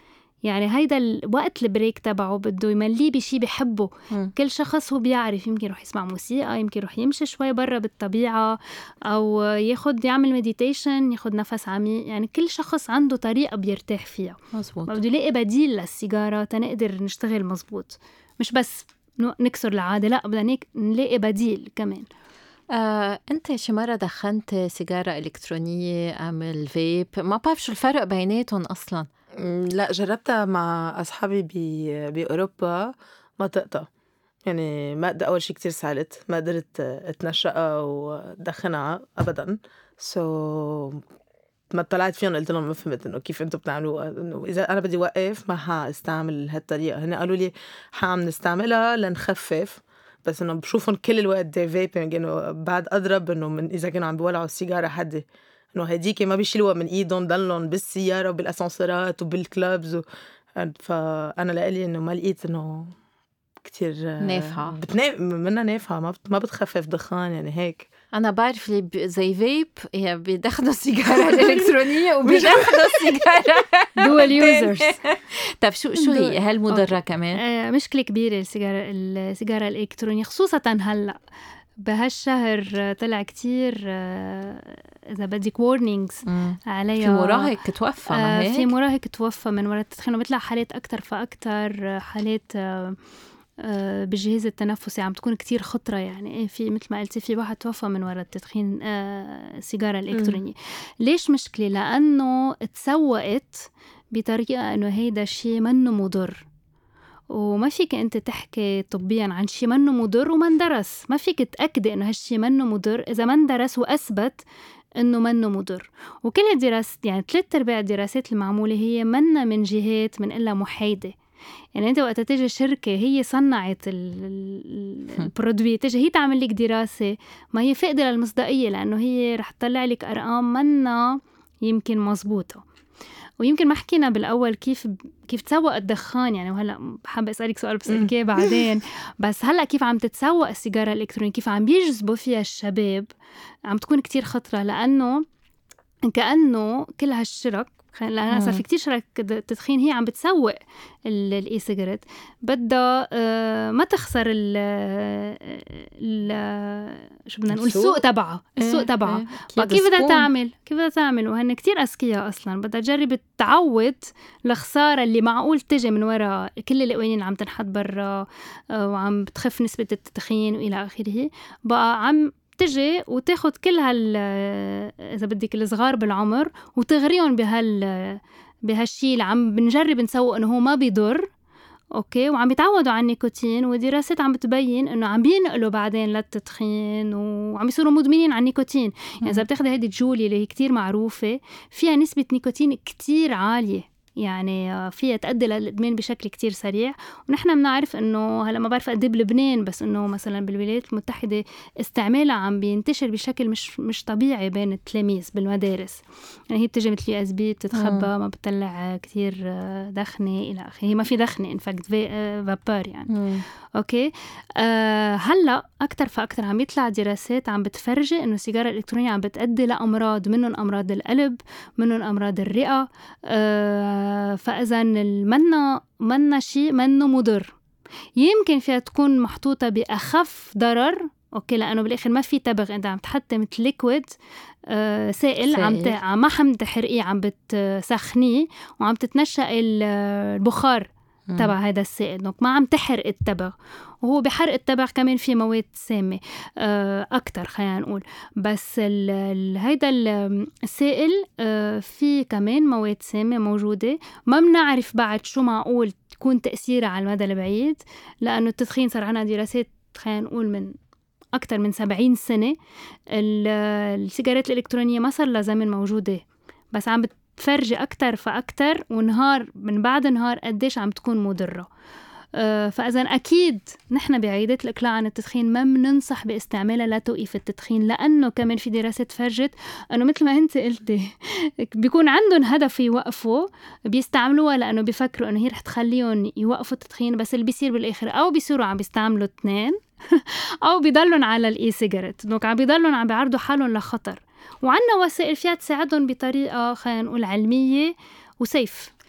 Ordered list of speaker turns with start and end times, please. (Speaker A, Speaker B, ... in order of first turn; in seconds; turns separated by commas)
Speaker A: 0.4-22.1, Speaker B: 14.5-15.0, Speaker B: 22.7-29.1, Speaker C: 29.4-33.9, Speaker C: 34.5-41.0, Speaker C: 41.7-60.0, Speaker C: 60.6-62.9, Speaker C: 63.6-67.9, Speaker B: 64.2-64.8, Speaker B: 68.1-77.4, Speaker C: 72.3-72.7, Speaker A: 74.0-75.0, Speaker A: 76.0-81.2, Speaker A: 81.8-87.5, Speaker B: 86.3-88.7, Speaker A: 88.1-93.0, Speaker A: 93.6-106.5, Speaker A: 107.3-114.4, Speaker A: 115.0-121.1, Speaker A: 121.8-132.6, Speaker A: 133.4-143.1, Speaker C: 138.0-138.6, Speaker A: 143.7-145.2, Speaker A: 146.0-181.3, Speaker B: 148.3-148.6, Speaker C: 157.5-158.0, Speaker B: 158.6-160.3, Speaker A: 181.9-213.2, Speaker B: 207.7-208.1, Speaker B: 213.1-213.4, Speaker A: 213.8-227.6, Speaker A: 228.2-234.2, Speaker A: 234.7-260.8, Speaker B: 235.5-236.0, Speaker A: 261.4-262.6, Speaker A: 263.1-271.7, Speaker A: 272.4-298.9